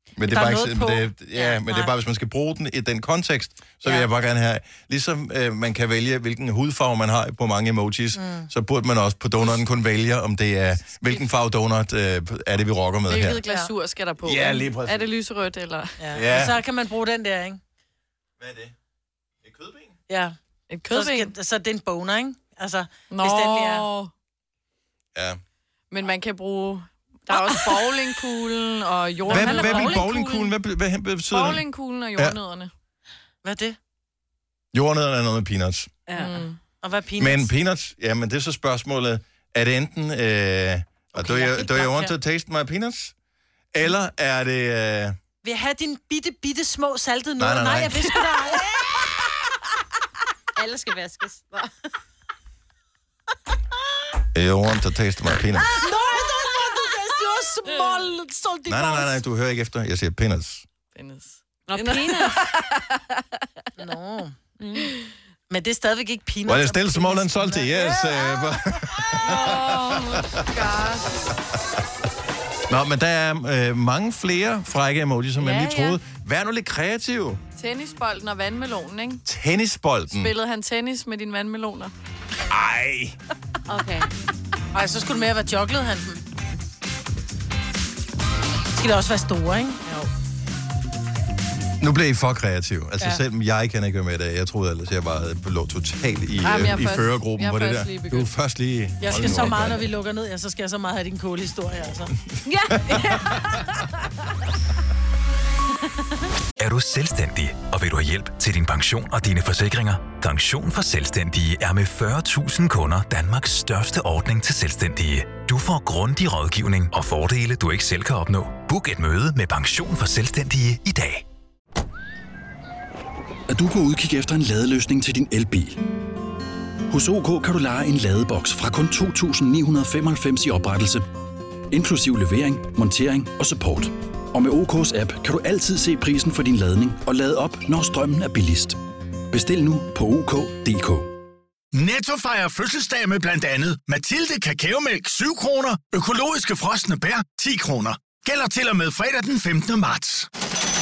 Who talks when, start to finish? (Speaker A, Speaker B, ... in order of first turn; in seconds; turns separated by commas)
Speaker A: 0.2-13.4, Speaker B: 0.3-1.9, Speaker B: 8.2-8.5, Speaker C: 13.1-15.9, Speaker A: 14.2-15.1, Speaker B: 16.0-17.6, Speaker A: 16.1-16.6, Speaker A: 18.4-18.7, Speaker A: 19.4-19.9, Speaker B: 20.1-20.4, Speaker C: 20.7-21.3, Speaker B: 20.9-23.9, Speaker C: 23.1-24.1, Speaker A: 25.1-25.4, Speaker C: 25.9-30.1, Speaker B: 29.3-30.4, Speaker A: 29.3-31.6, Speaker D: 29.4-30.5, Speaker C: 31.3-32.7, Speaker B: 33.4-33.8, Speaker A: 34.7-36.0, Speaker B: 36.1-37.5, Speaker C: 36.1-36.6, Speaker A: 37.2-43.1, Speaker B: 41.2-42.1, Speaker A: 43.7-45.2, Speaker B: 45.4-48.9, Speaker A: 47.4-48.2, Speaker D: 50.6-51.7, Speaker A: 54.3-55.8, Speaker B: 55.6-59.2, Speaker A: 58.7-60.7, Speaker C: 60.9-63.2, Speaker D: 61.7-62.5, Speaker B: 63.8-64.4, Speaker D: 64.6-64.9, Speaker B: 65.5-69.1, Speaker A: 66.5-70.5, Speaker C: 69.2-71.3, Speaker A: 72.7-77.4, Speaker C: 75.4-76.0, Speaker C: 77.6-79.2, Speaker A: 79.2-80.3, Speaker C: 80.1-81.9, Speaker A: 82.5-83.2, Speaker D: 83.7-84.1, Speaker B: 84.7-86.2, Speaker B: 88.7-89.8, Speaker C: 89.8-90.1, Speaker A: 91.8-99.9, Speaker C: 96.4-98.3, Speaker B: 99.0-102.1, Speaker D: 102.5-103.8, Speaker A: 102.8-103.3, Speaker E: 106.6-121.2, Speaker F: 123.5-125.8, Speaker F: 126.9-131.1, Speaker F: 131.7-138.8, Speaker F: 139.3-141.1, Speaker G: 141.7-150.3